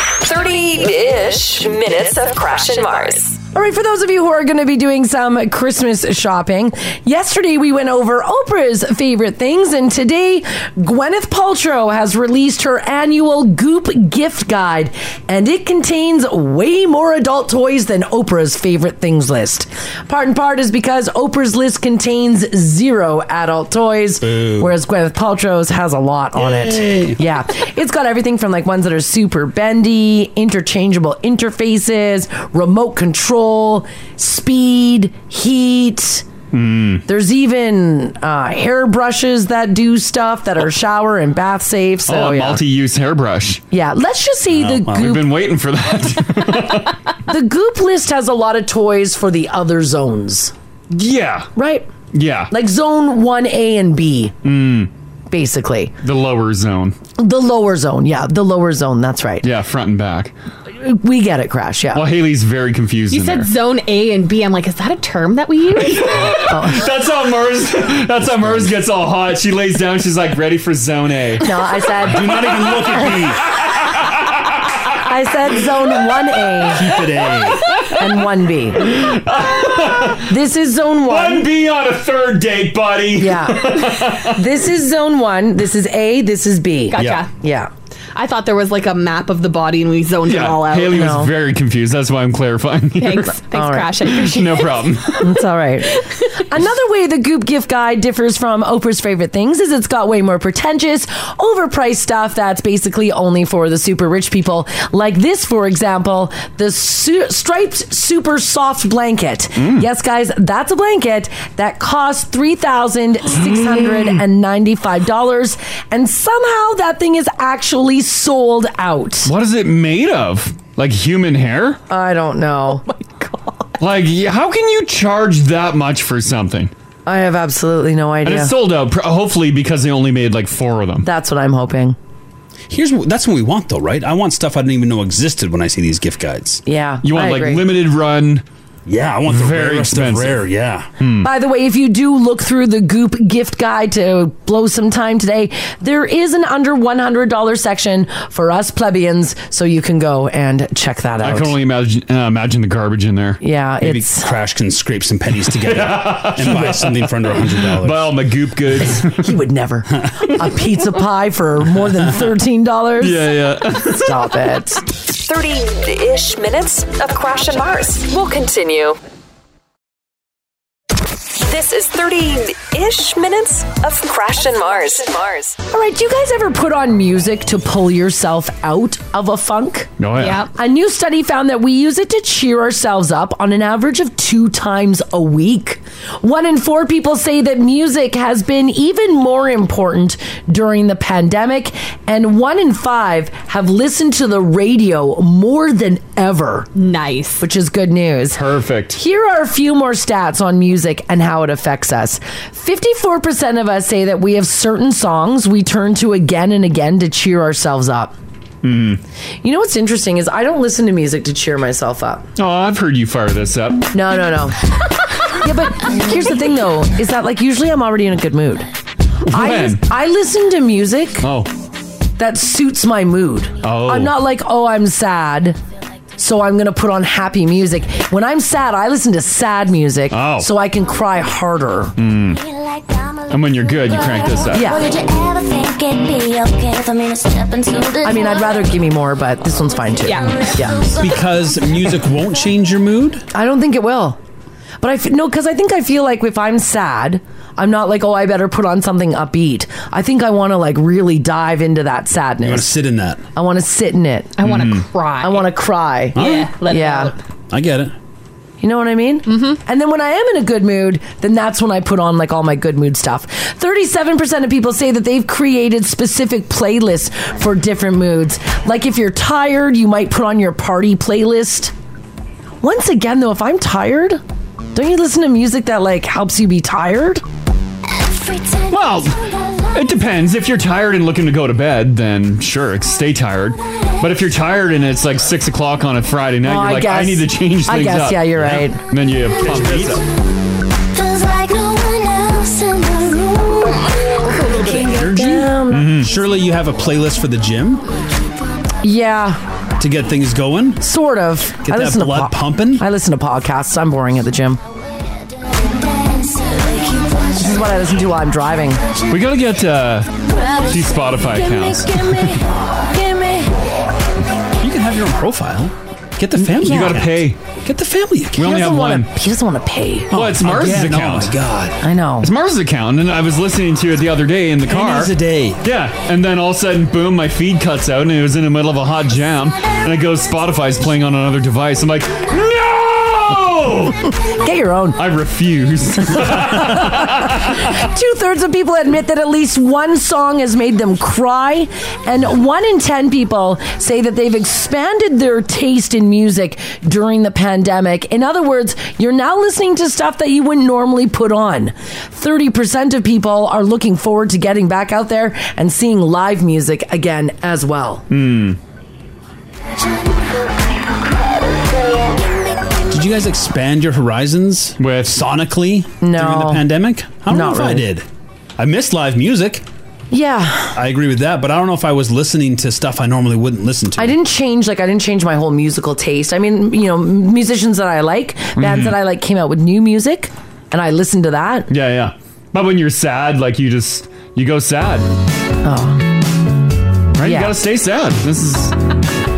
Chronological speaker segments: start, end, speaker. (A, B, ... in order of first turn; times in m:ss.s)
0:00.2-0:03.4 A
0:03.5-0:36.2 B
0:24.2-0:24.7 C
0:26.4-0:27.2 C
0:36.5-0:37.0 D
0:37.1-0:42.6 B
0:42.1-0:43.6 D
0:43.7-0:45.3 B
0:44.5-0:45.1 C
0:44.8-0:47.0 D
0:47.3-0:50.5 B
0:50.9-0:51.5 D
0:51.6-0:51.9 B
0:52.1-0:52.5 D
0:52.5-0:54.3 B
0:54.4-0:54.9 D
0:55.3-0:55.9 B
0:56.0-0:56.9 D
0:57.2-0:59.5 B
0:59.4-1:00.3 D
1:00.8-1:02.0 B
1:01.9-1:03.5 D
1:03.1-1:06.0 E
1:05.8-1:11.4 D
1:06.5-1:06.8 B
1:08.2-1:08.8 C
1:11.4-1:13.1 B
1:12.0-1:13.4 C
1:12.5-1:14.4 D
1:14.9-1:16.8 B
1:16.7-1:17.7 C
1:17.0-1:20.3 D
1:17.9-1:18.9 B
1:20.2-1:21.4 B
1:21.1-1:24.4 D
1:23.2-1:27.7 B
1:26.9-1:27.3 E
1:27.0-1:27.2 C
1:28.2-1:31.1 E
1:30.2-1:33.4 D
1:30.9-1:31.3 B
1:33.0-1:34.9 E
1:33.5-1:33.9 B
1:34.0-1:35.3 D
1:35.2-1:59.3 B
1:35.9-1:36.3 E
1:49.6-1:49.8 D
1:53.4-1:54.1 D
1:59.2-2:01.8 D
2:01.9-2:02.8 B
2:02.8-2:03.7 E
2:03.8-2:06.7 D
2:07.0-2:08.5 B
2:08.2-2:11.1 D
2:11.0-2:12.0 B
2:12.7-2:16.6 C
2:16.6-2:17.6 B
2:17.0-2:18.4 D
2:18.8-2:20.9 C
2:19.3-2:20.4 D
2:21.0-2:21.3 D
2:21.2-2:31.5 B
2:31.2-2:33.4 D
2:33.4-2:34.3 B
2:33.8-2:38.1 C
2:35.5-2:39.3 D
2:39.0-2:43.3 B
2:43.0-2:44.2 D
2:44.0-2:44.8 B
2:45.2-2:49.0 A
2:51.3-2:55.6 A
2:55.7-2:59.9 B
3:00.0-3:00.4 D
3:00.2-3:00.5 E
3:00.5-3:16.7 B
3:16.8-3:17.4 E
3:17.4-3:18.4 B
3:18.3-3:19.0 D
3:18.9-3:28.1 B
3:28.6-3:29.0 D
3:29.4-3:32.2 B
3:32.4-3:33.9 D
3:33.9-3:34.6 B
3:35.3-3:38.7 B
3:39.2-3:39.8 D
3:39.3-3:41.3 B
3:41.2-3:41.5 D
3:42.2-3:45.6 B
3:43.6-3:44.1 D
3:46.2-3:51.9 B
3:50.1-3:50.5 D
3:52.0-3:52.4 D
3:52.3-3:58.8 F
3:53.3-3:54.7 D
3:54.5-3:54.9 B
3:58.0-4:00.9 B
4:00.0-4:00.5 E
4:00.3-4:01.6 F
4:01.0-4:03.2 C
4:03.3-4:04.2 B
4:04.8-4:12.7 B
4:12.4-4:13.2 C
4:13.3-4:14.3 B
4:14.4-4:15.5 E
4:14.4-4:14.8 D
4:15.2-4:17.1 B
4:16.1-4:17.2 E
4:16.1-4:16.5 C
4:17.5-4:17.9 C
4:18.6-4:31.7 B
4:19.3-4:19.6 E
4:32.6-4:34.2 B
4:34.7-4:37.2 B
4:38.0-4:39.7 F
4:38.7-4:39.2 D
4:39.7-4:50.0 D
4:46.4-4:48.8 B
4:49.4-4:50.0 C
4:50.9-4:54.3 F
4:54.3-4:56.1 D
4:54.4-4:57.8 C
4:54.5-4:56.0 B
4:58.8-4:59.4 B
4:59.8-5:00.9 C
5:00.8-5:04.6 B
5:01.6-5:02.8 C
5:05.6-5:07.9 F
5:07.4-5:08.8 B
5:09.1-5:10.1 D
5:10.3-5:12.4 F
5:10.6-5:12.4 D
5:11.9-5:12.3 B
5:12.9-5:13.5 B
5:14.6-5:18.6 C
5:16.5-5:17.4 D
5:16.6-5:16.9 B
5:18.4-5:19.1 D
5:18.4-5:20.1 B
5:20.1-5:21.8 C
5:20.1-5:21.4 D
5:21.8-5:22.3 B
5:22.2-5:34.2 D
5:24.7-5:25.6 C
5:34.3-5:35.0 B
5:35.0-5:37.7 D
5:36.1-5:58.0 B
5:58.1-5:58.6 D
6:01.7-6:02.8 F
6:02.9-6:08.0 C
6:04.8-6:05.2 D
6:06.0-6:06.6 B
6:07.3-6:07.9 B
6:08.6-6:09.6 C
6:10.1-6:10.8 B
6:10.7-6:14.2 C
6:14.0-6:21.7 B
6:18.6-6:19.0 D
6:21.7-6:25.0 D
6:25.6-6:26.0 B
6:27.2-6:28.8 D
6:27.2-6:27.6 B